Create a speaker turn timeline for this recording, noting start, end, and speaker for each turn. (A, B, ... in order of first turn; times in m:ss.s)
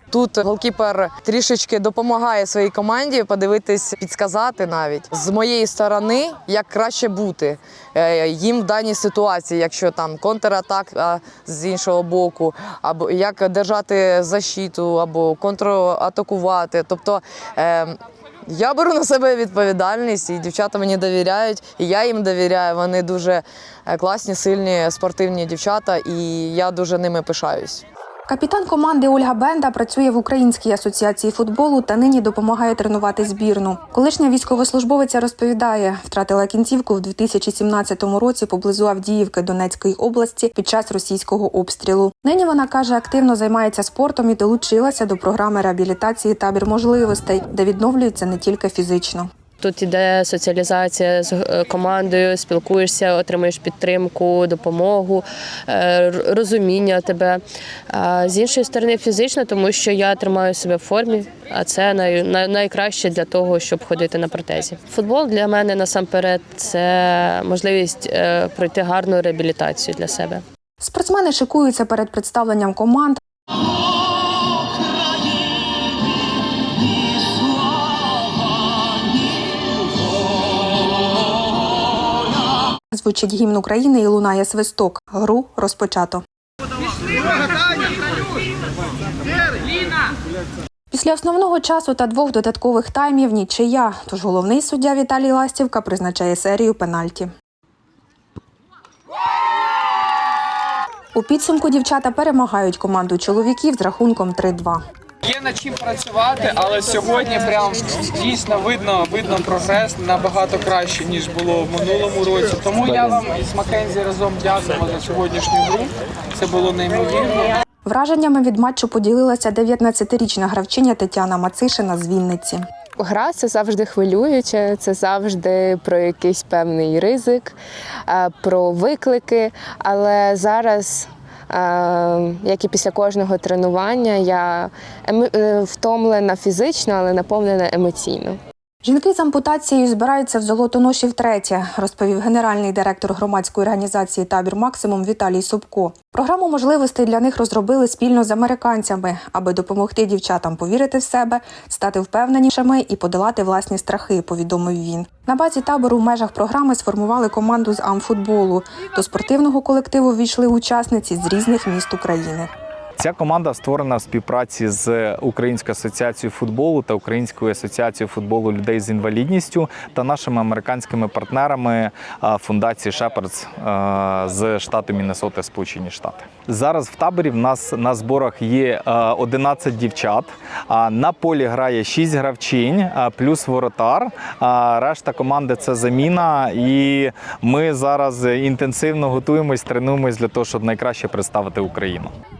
0:00.1-0:27.8 A
0:28.3-0:49.3 B
0:49.6-1:10.4 C
1:10.8-1:13.2 B
1:22.9-1:26.2 B
1:30.9-1:37.3 B
1:41.1-1:44.8 B
1:45.2-1:57.5 D
1:57.8-2:02.6 B
2:03.0-2:18.4 E
2:18.8-2:42.5 B
2:43.0-3:12.1 F